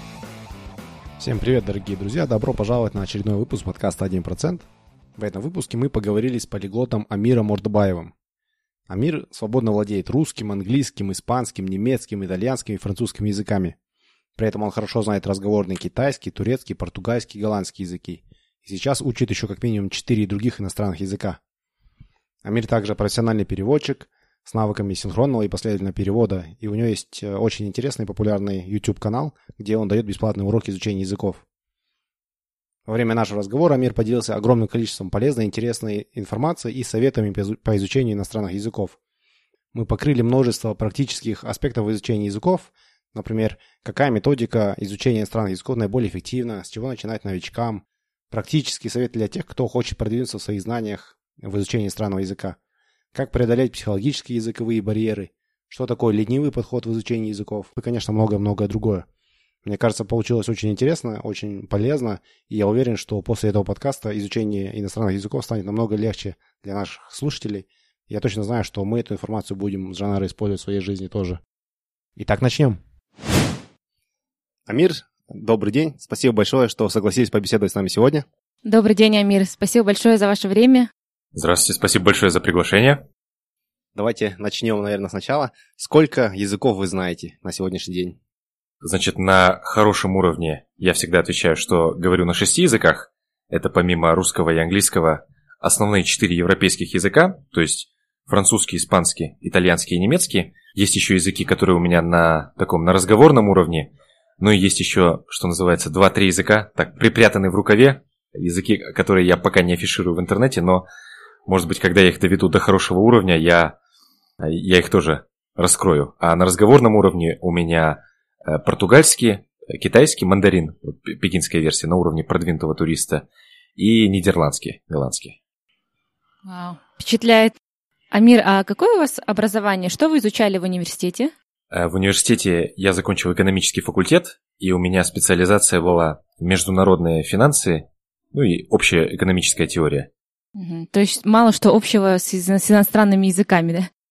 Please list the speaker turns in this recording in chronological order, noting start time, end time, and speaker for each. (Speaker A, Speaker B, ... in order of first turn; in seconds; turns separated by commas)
Speaker A: 1.2-8.1, Speaker A: 8.9-13.8, Speaker A: 14.3-21.4, Speaker A: 22.4-31.4, Speaker A: 32.9-39.0, Speaker A: 39.7-52.6, Speaker A: 53.1-59.1, Speaker A: 59.6-71.4, Speaker A: 72.2-72.8, Speaker A: 74.7-78.2, Speaker B: 78.6-80.9, Speaker C: 81.3-83.0, Speaker A: 83.9-88.2, Speaker C: 88.8-110.8, Speaker C: 111.5-113.8, Speaker C: 114.4-123.2, Speaker C: 123.8-125.4, Speaker B: 126.4-127.5, Speaker B: 128.1-131.3, Speaker C: 131.7-140.1, Speaker B: 140.5-143.9